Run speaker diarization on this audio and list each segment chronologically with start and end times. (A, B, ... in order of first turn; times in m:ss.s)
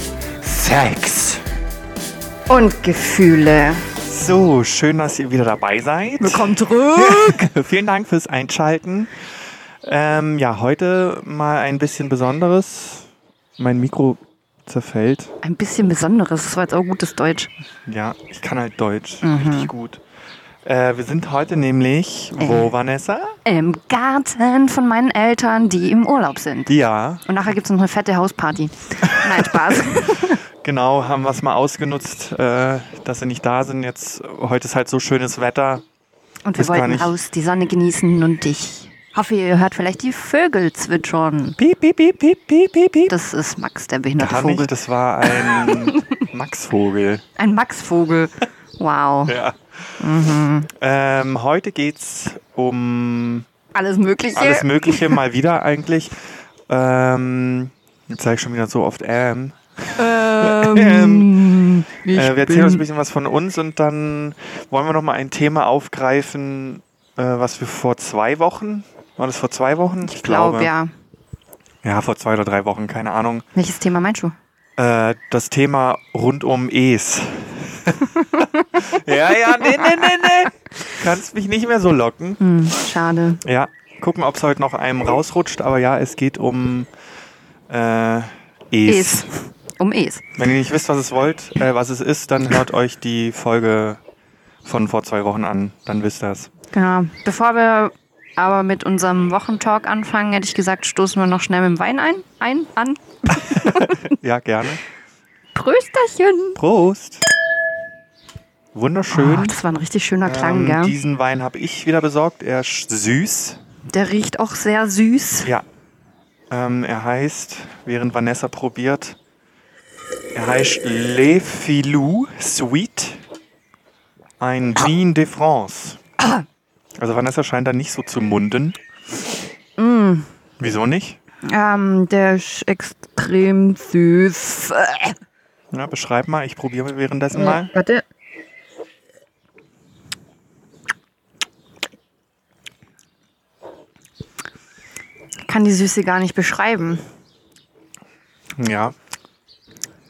0:00.4-0:01.4 A
0:02.5-0:03.9 B
0:04.0-0:09.1 A
0:06.2-0:07.5 B
0:09.8-0:13.1 A
0:13.6-0:15.3 A
0:15.4-0:17.5 B
0:17.9-0:20.0 A
0:19.2-0:19.7 B
0:20.6-0:23.4 A
0:22.4-0:22.7 B
0:23.4-0:26.7 B
0:26.7-0:27.2 A
0:27.2-0:30.4 B
0:29.0-0:35.8 A
0:36.5-0:41.6 B
0:36.6-0:37.1 A
0:41.6-0:43.1 A
0:43.1-0:44.7 B
0:44.2-0:47.2 A
0:45.2-0:46.1 B
0:47.4-0:49.4 B
0:49.3-0:53.5 A
0:50.0-0:50.7 B
0:53.7-0:55.2 B
0:54.4-0:56.2 A
0:56.7-1:10.7 A
1:00.0-1:02.8 B
1:10.0-1:10.9 B
1:11.8-1:13.4 A
1:13.6-1:14.4 B
1:14.8-1:22.4 A
1:18.4-1:19.0 B
1:19.6-1:20.3 B
1:22.4-1:23.4 B
1:23.4-1:26.9 A
1:27.7-1:29.3 A
1:28.9-1:30.2 B
1:30.4-1:34.0 A
1:34.6-1:36.5 A
1:36.7-1:44.0 B
1:43.3-1:44.8 A
1:45.6-1:46.6 B
1:46.6-1:47.2 A
1:48.8-1:49.6 A
1:49.1-1:51.0 B
1:50.2-1:53.6 A
1:53.9-1:55.5 B
1:56.5-1:59.2 A
2:00.4-2:03.2 A
2:04.4-2:06.0 A
2:06.2-2:06.4 B
2:07.0-2:08.8 A
2:09.8-2:10.3 B
2:10.6-2:11.2 A
2:11.4-2:15.2 B
2:15.7-2:17.7 A
2:17.3-2:18.0 B
2:25.4-2:27.0 B
2:28.6-2:29.0 A